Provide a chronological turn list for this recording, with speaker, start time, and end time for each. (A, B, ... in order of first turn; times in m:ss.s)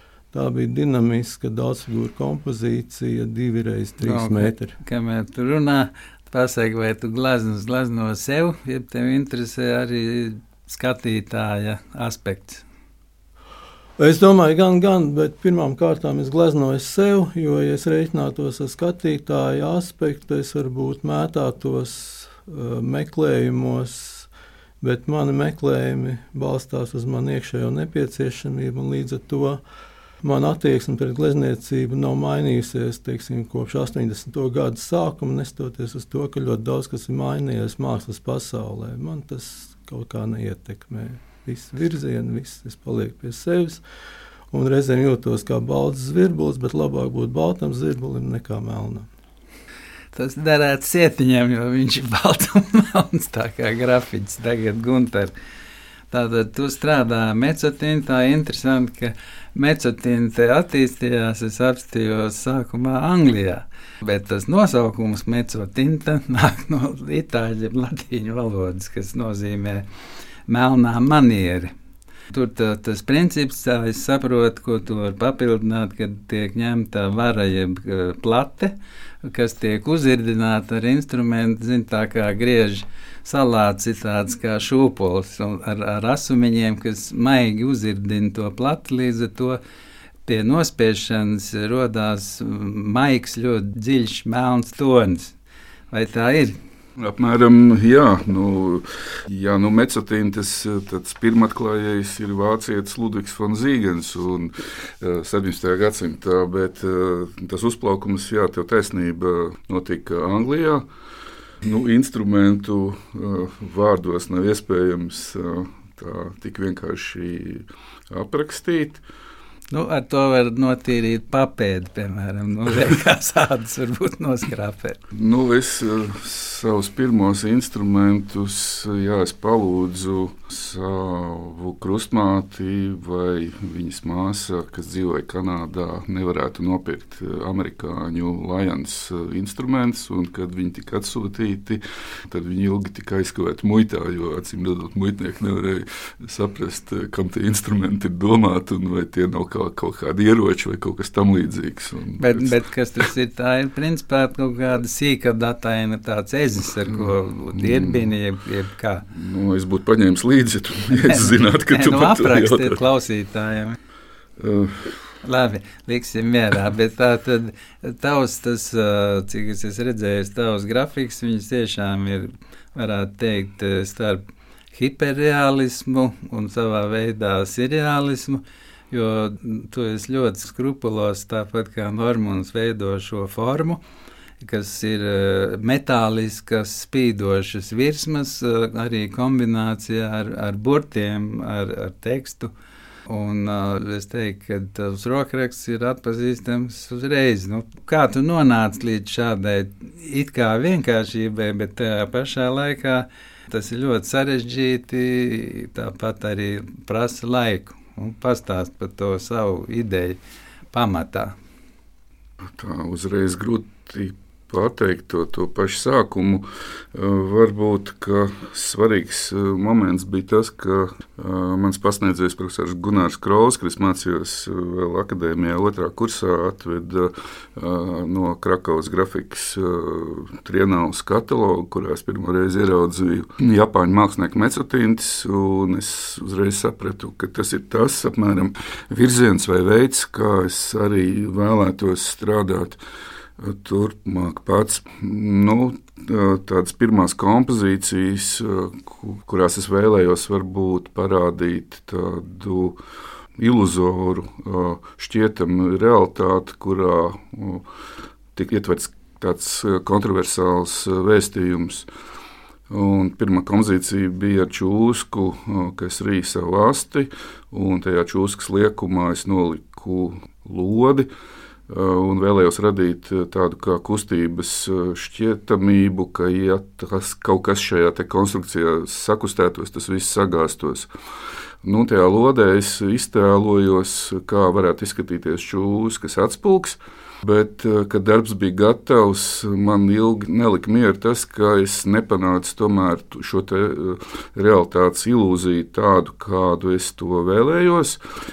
0:00.3-0:04.8 A
0:04.0-0:12.6 B
0:14.0-0:24.3 A
0:24.8-0:29.6 A
0:30.2-0:43.8 A
0:44.5-0:49.1 A
0:50.1-0:55.3 B
0:56.1-1:09.9 B
1:10.5-1:11.7 B
1:12.3-1:29.6 B
1:30.2-1:35.4 B
1:35.9-1:36.6 B
1:37.0-1:50.9 C
1:51.6-1:59.0 C
1:59.7-2:05.0 B
2:05.1-2:32.6 C
2:32.2-2:39.0 B
2:36.9-2:38.1 C
2:39.1-2:42.8 C
2:40.9-2:43.8 B
2:44.4-2:45.1 C
2:45.2-3:03.8 B
3:04.4-3:12.5 B
3:13.1-3:30.2 B
3:30.7-3:31.4 B
3:32.5-4:02.8 C
4:03.4-4:12.8 C
4:13.4-4:17.6 C
4:18.4-4:21.9 C
4:22.7-4:31.1 C
4:31.7-4:40.9 C
4:41.6-4:58.0 C